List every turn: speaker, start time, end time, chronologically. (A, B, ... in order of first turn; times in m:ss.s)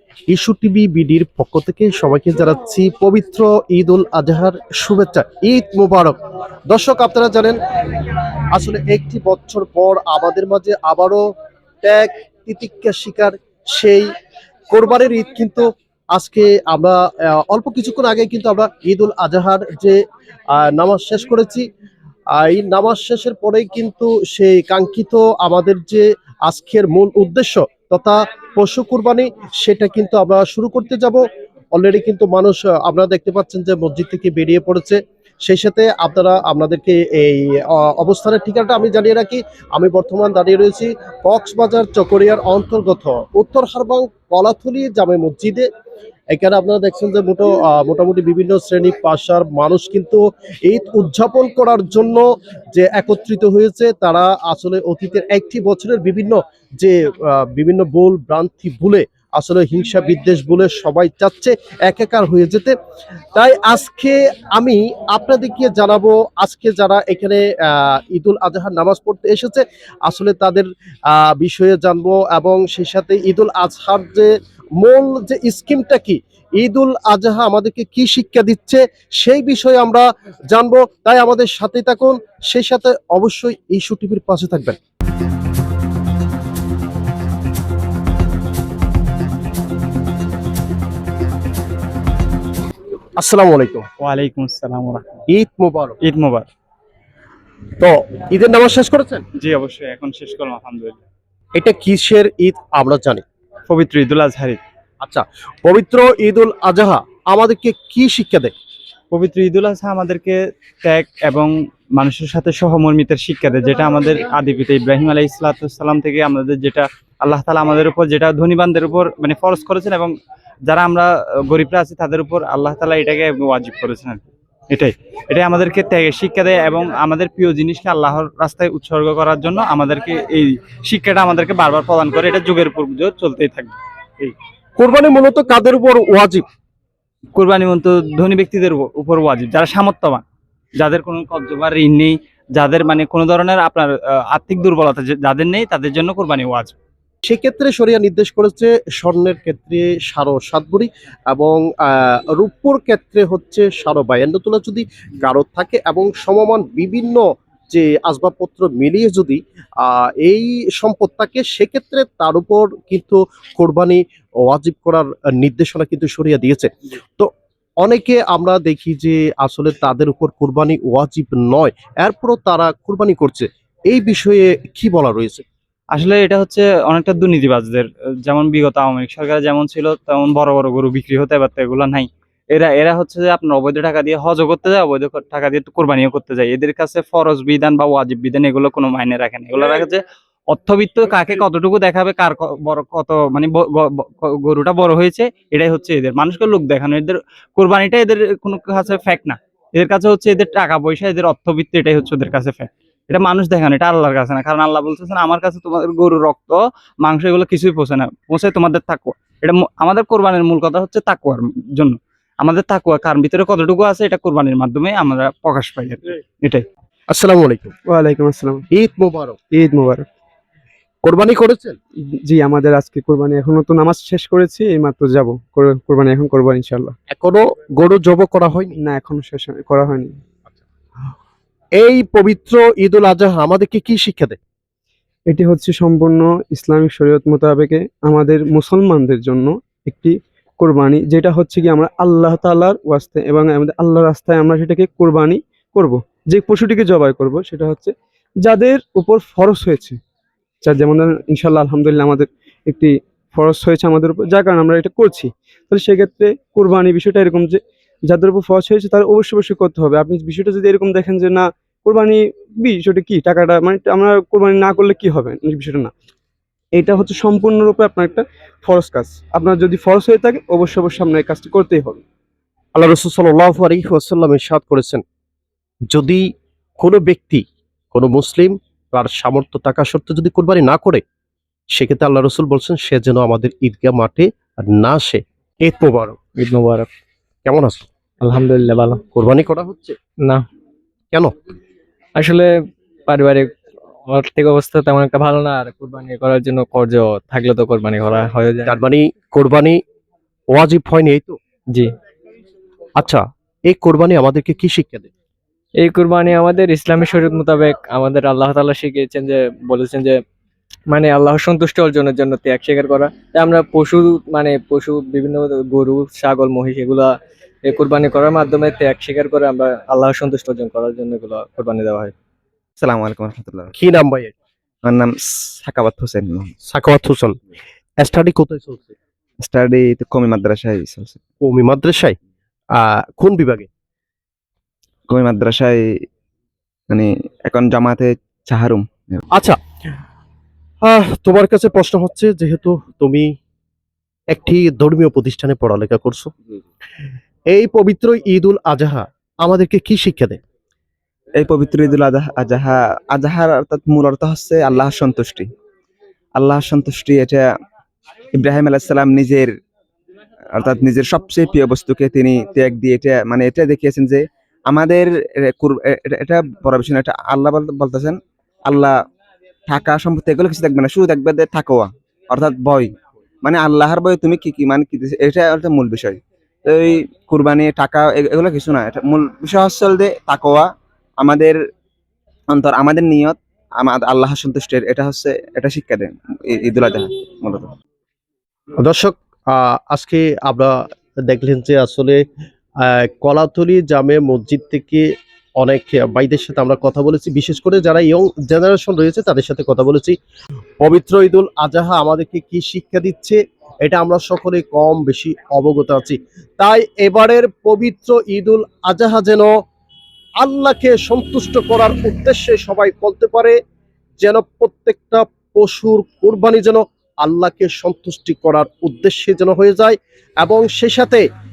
0:00.3-0:06.2 A
0:06.7-0:07.6 A
0:08.5-0:11.3 A
0:11.8-0:14.1 A
0:14.7-0:20.0 A
0:20.5-0:21.7 A
0:22.3-0:31.2 A
0:31.7-0:45.7 A
0:46.3-1:02.7 A
1:03.3-1:24.8 A
1:33.2-1:33.9 A
1:34.0-1:35.2 B
1:35.3-1:36.0 A
1:36.0-1:36.5 B
1:37.8-1:39.2 A
1:39.4-1:41.0 B
1:41.6-1:43.2 A
1:43.7-1:44.6 B
1:45.0-1:48.5 A
1:49.1-2:00.1 B
2:00.7-2:14.3 B
2:14.8-2:16.4 A
2:17.4-2:20.2 B
2:20.8-2:26.8 B
2:27.2-2:47.3 A
2:47.8-2:55.4 A
2:55.9-3:36.6 B
3:37.1-3:37.7 A
3:37.9-3:38.6 C
3:38.7-3:39.4 A
3:39.5-3:40.0 C
3:41.0-3:41.8 A
3:42.2-3:46.9 C
3:47.1-3:48.8 A
3:48.8-3:50.1 C
3:51.8-3:54.4 A
3:55.3-4:10.0 C
4:10.6-4:25.9 C
4:26.7-4:32.0 C
4:32.7-4:35.0 A
4:35.9-4:36.2 A
4:36.8-4:41.0 A
4:41.7-4:46.2 A
4:46.4-4:46.9 D
4:47.4-4:47.8 A
4:48.2-4:49.0 D
4:49.1-4:50.0 A
4:52.2-4:52.5 D
4:53.1-4:53.5 D
4:54.1-4:58.8 D
4:58.7-4:59.8 A
5:00.5-5:01.4 A
5:03.0-5:05.1 A
5:05.8-5:10.2 D
5:10.9-5:17.1 D
5:17.6-5:22.1 D
5:22.8-5:23.7 E
5:23.8-5:24.3 A
5:24.8-5:26.5 E
5:26.7-5:27.4 A
5:28.0-5:28.9 A
5:29.4-5:31.2 E
5:31.4-5:32.1 A
5:32.7-5:33.7 A
5:35.1-5:35.8 E
5:36.9-5:39.2 E
5:40.8-5:43.3 A
5:44.3-5:46.3 A
5:47.5-5:50.4 A
5:51.4-5:55.5 E
5:56.4-5:57.4 E
5:58.3-5:59.5 E
6:00.5-6:08.9 E
6:09.7-6:12.9 E
6:13.4-6:20.7 E
6:21.2-6:21.6 E
6:22.5-6:27.7 E
6:28.8-6:32.2 A
6:32.8-6:35.1 A
6:35.6-6:40.2 A
6:40.8-6:49.5 A
6:50.4-6:53.6 A
6:54.2-7:01.2 A